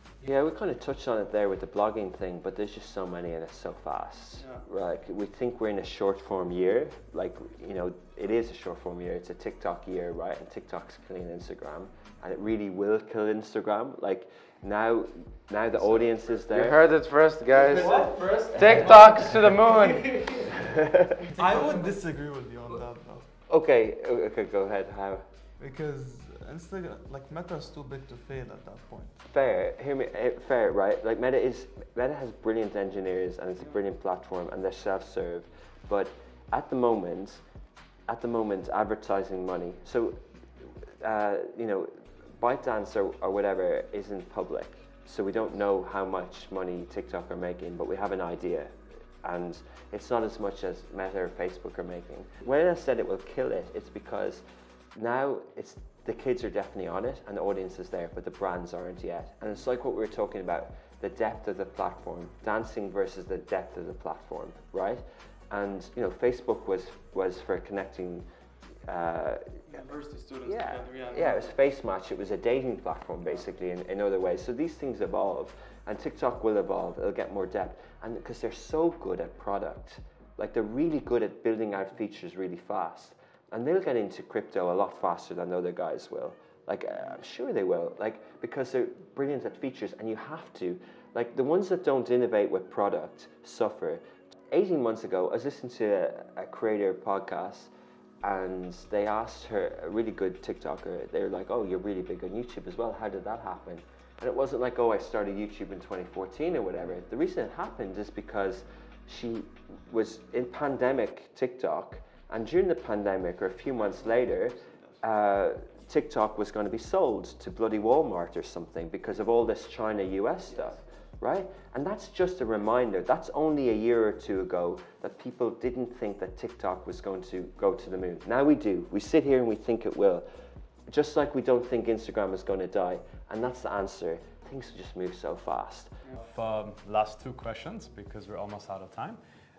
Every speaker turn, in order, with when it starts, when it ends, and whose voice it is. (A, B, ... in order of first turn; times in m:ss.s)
0:00.2-0:16.8 A
0:04.4-0:04.6 B
0:16.5-0:20.2 C
0:17.8-0:18.4 D
0:20.4-0:21.3 A
0:21.3-0:23.3 B
0:23.5-0:25.2 A
0:25.6-0:29.2 B
0:29.3-0:37.4 A
0:38.1-0:48.7 A
0:49.2-0:54.4 A
0:55.0-1:08.2 A
1:08.9-1:09.4 A
1:09.7-1:11.5 B
1:10.4-1:37.7 A
1:38.2-2:10.2 A
1:54.6-1:55.0 B
2:10.9-2:15.9 A
2:16.2-2:19.2 D